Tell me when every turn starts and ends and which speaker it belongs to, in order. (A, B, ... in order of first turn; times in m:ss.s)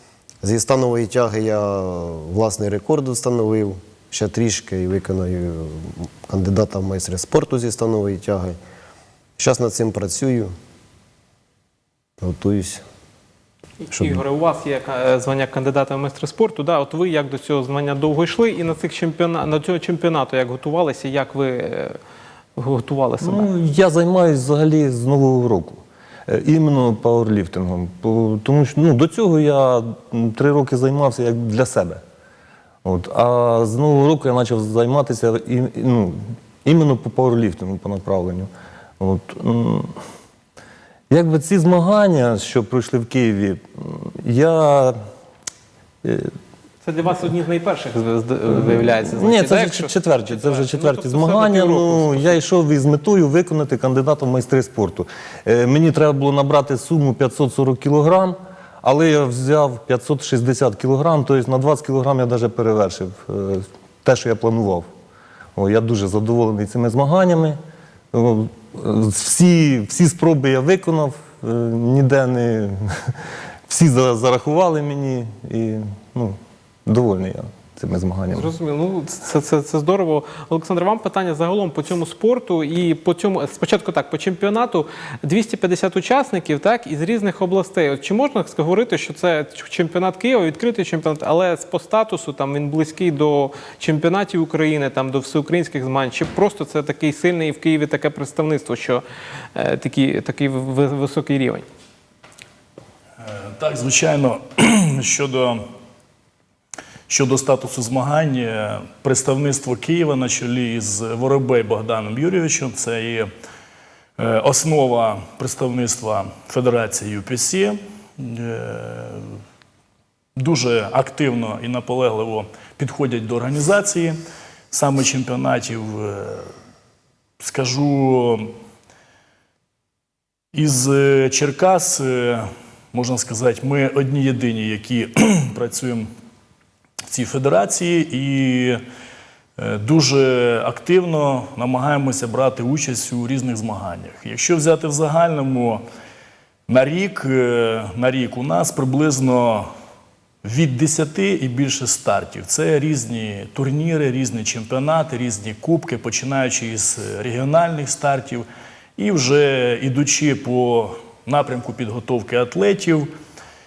0:00.4-0:08.6 A
0:09.4-0:10.5 A
0:12.2-0:12.8 A
0:13.9-0:22.0 B
0:13.9-0:14.2 A
0:22.6-0:23.5 B
0:23.2-0:32.0 C
0:32.8-0:40.0 C
0:41.1-0:45.0 C
0:46.0-0:46.3 C
0:46.8-0:52.4 B
0:49.1-1:04.9 C
1:05.6-1:07.6 C
1:08.1-1:18.5 C
1:18.3-1:39.0 B
1:39.6-1:41.6 B
1:43.2-1:45.6 D
1:47.1-1:53.3 D
1:54.2-1:59.4 D
2:00.4-2:04.2 D
2:04.7-2:06.5 D
2:07.4-2:08.5 D
2:10.5-2:16.1 D
2:17.1-2:18.8 D
2:19.6-2:25.8 D
2:26.7-2:29.7 D
2:30.4-2:38.4 D
2:39.0-2:43.1 D